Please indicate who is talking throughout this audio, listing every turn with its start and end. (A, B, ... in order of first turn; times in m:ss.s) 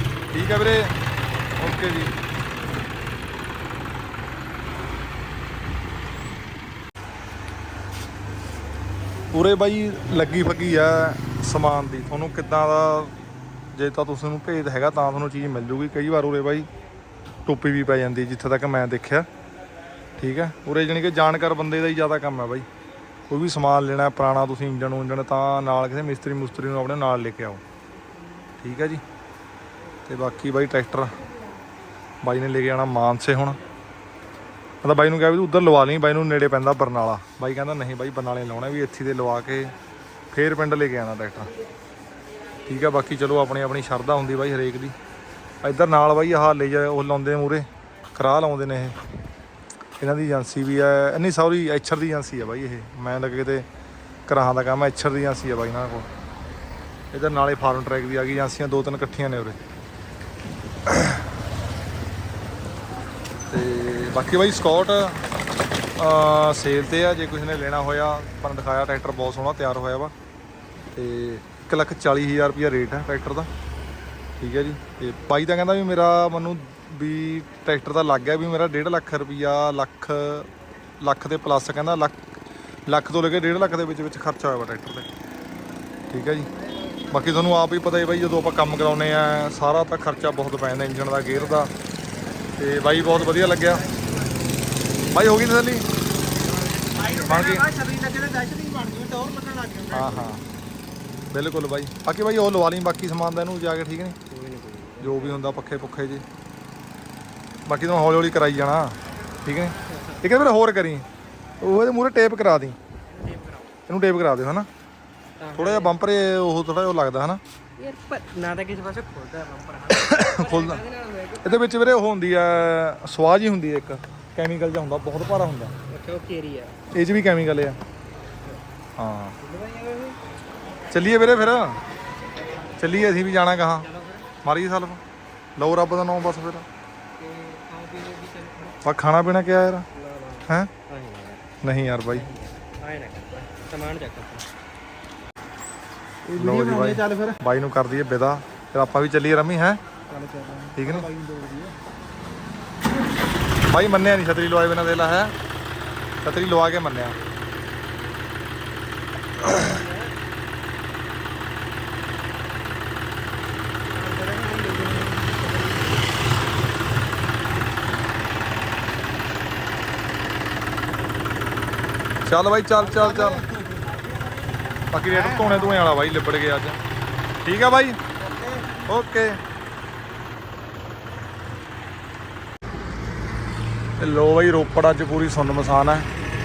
0:00.3-0:00.9 A
0:01.6-0:02.1 A
0:09.3-0:13.1 A
0:13.7-0:16.7 A
0:17.4-0:19.3 A
0:20.2-0:22.6 A
0:23.3-0:27.6 A
0:28.6-0:29.0 A
0:30.0-0:31.1 A
0:32.2-0:33.6 A
0:34.8-0:39.7 A
0:40.3-0:41.5 A
0:42.6-0:44.9 A
0:45.6-0:48.9 A
0:50.0-0:53.6 A
0:54.3-0:56.1 A
0:57.1-0:59.6 A
1:00.9-1:01.2 A
1:03.5-1:05.2 A
1:06.0-1:10.1 A
1:10.9-1:13.5 A
1:14.4-1:20.5 A
1:21.0-1:22.2 A
1:22.9-1:25.1 A
1:26.1-1:26.5 A
1:27.1-1:31.7 A
1:32.6-1:33.9 A
1:33.0-1:34.3 B
1:35.1-1:35.9 A
1:36.3-1:37.9 B
1:37.1-1:39.9 C
1:37.2-1:37.7 A
1:39.9-1:40.4 A
1:40.0-1:40.3 B
1:41.3-1:44.2 A
1:44.3-1:45.6 B
1:45.0-1:46.2 A
1:47.7-1:51.0 A
1:49.9-1:50.2 B
1:51.6-1:52.8 A
1:53.0-1:53.8 B
1:53.9-1:54.7 A
1:55.4-1:56.0 B
1:55.5-1:57.4 A
1:57.8-2:01.9 B
1:59.9-2:00.8 A
2:01.4-2:05.7 A
2:05.9-2:06.8 B
2:06.9-2:07.8 A
2:09.0-2:09.4 A
2:09.4-2:10.2 B
2:10.9-2:11.8 A
2:12.8-2:13.9 A
2:13.8-2:14.3 B
2:14.4-2:15.0 A
2:15.6-2:16.6 A
2:17.2-2:18.8 B
2:18.8-2:19.8 A
2:19.9-2:21.4 B
2:21.6-2:22.3 A
2:22.0-2:24.5 B
2:26.3-2:29.8 A
2:26.6-2:27.3 C
2:30.1-2:31.7 C
2:30.7-2:31.1 A
2:33.6-2:35.3 A
2:36.2-2:37.2 A
2:44.2-2:44.9 B
2:44.3-2:45.1 C
2:52.2-2:53.5 A
2:53.1-2:54.4 C
2:54.9-2:56.8 A
2:57.4-2:58.0 A
2:58.3-2:58.7 C
2:58.8-2:59.4 A
3:04.0-3:06.1 A